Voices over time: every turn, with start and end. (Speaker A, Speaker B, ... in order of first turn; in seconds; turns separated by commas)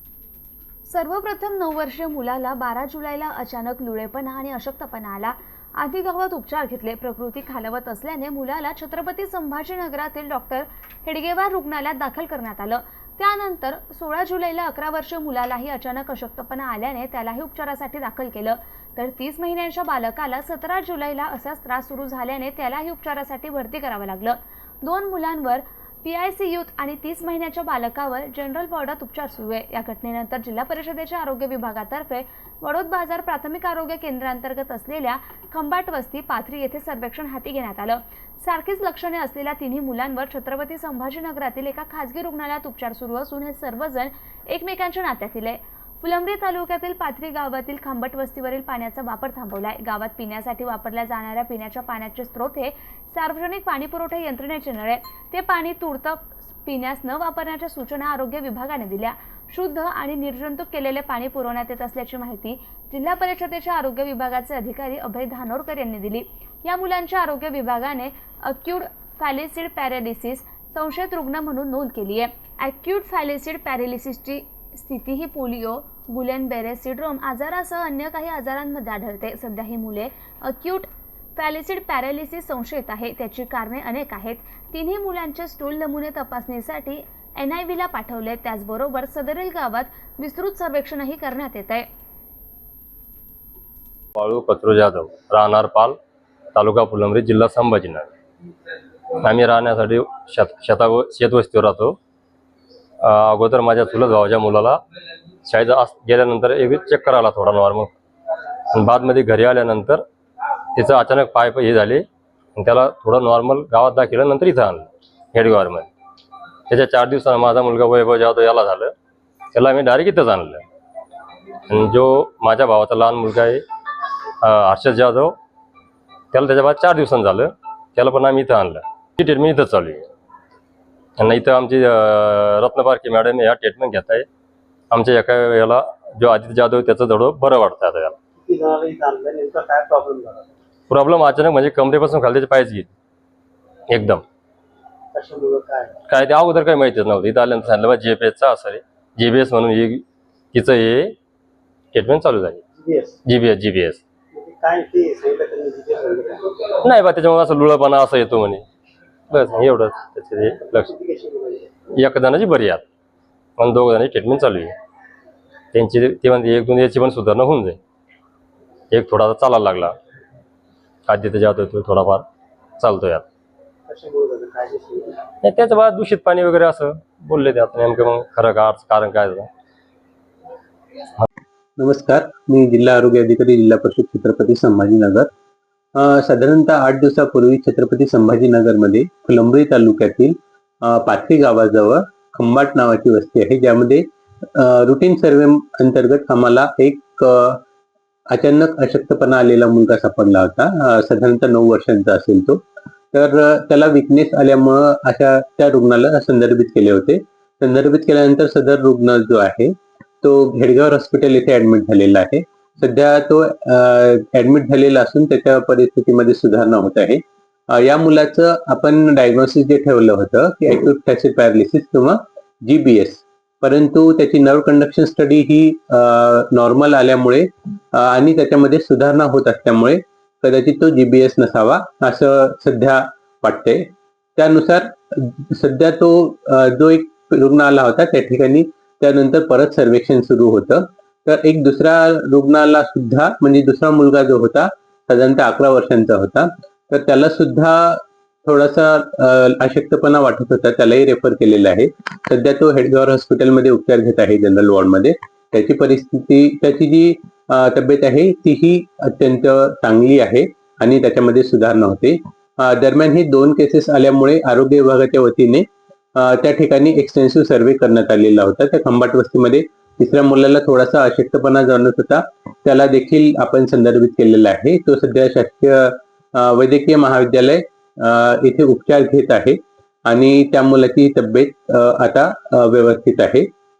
Speaker A: 0.9-91.8, Speaker B: 94.2-96.0, Speaker B: 96.5-98.1, Speaker B: 99.2-102.0, Speaker B: 103.0-104.8, Speaker B: 105.4-107.9, Speaker B: 108.7-110.0, Speaker B: 110.7-115.9, Speaker B: 116.7-118.9, Speaker B: 119.5-120.6, Speaker B: 121.7-123.6, Speaker B: 124.4-125.4, Speaker B: 126.3-130.1, Speaker B: 131.2-134.2, Speaker B: 134.9-138.2, Speaker C: 138.4-140.5, Speaker B: 140.9-142.9, Speaker B: 143.9-144.2, Speaker C: 145.1-145.9, Speaker B: 146.1-151.2, Speaker B: 151.9-152.6, Speaker C: 152.8-153.2, Speaker B: 153.2-154.0, Speaker C: 154.3-156.5, Speaker B: 156.8-158.6, Speaker B: 159.3-160.9, Speaker C: 160.8-161.7, Speaker B: 161.9-162.8, Speaker B: 163.6-164.7, Speaker B: 165.7-167.8, Speaker B: 168.9-169.9, Speaker B: 171.1-172.2, Speaker B: 172.8-173.2, Speaker C: 173.9-175.2, Speaker B: 175.4-179.5, Speaker D: 181.8-185.3, Speaker D: 185.9-197.6, Speaker D: 198.3-202.6, Speaker D: 203.1-283.5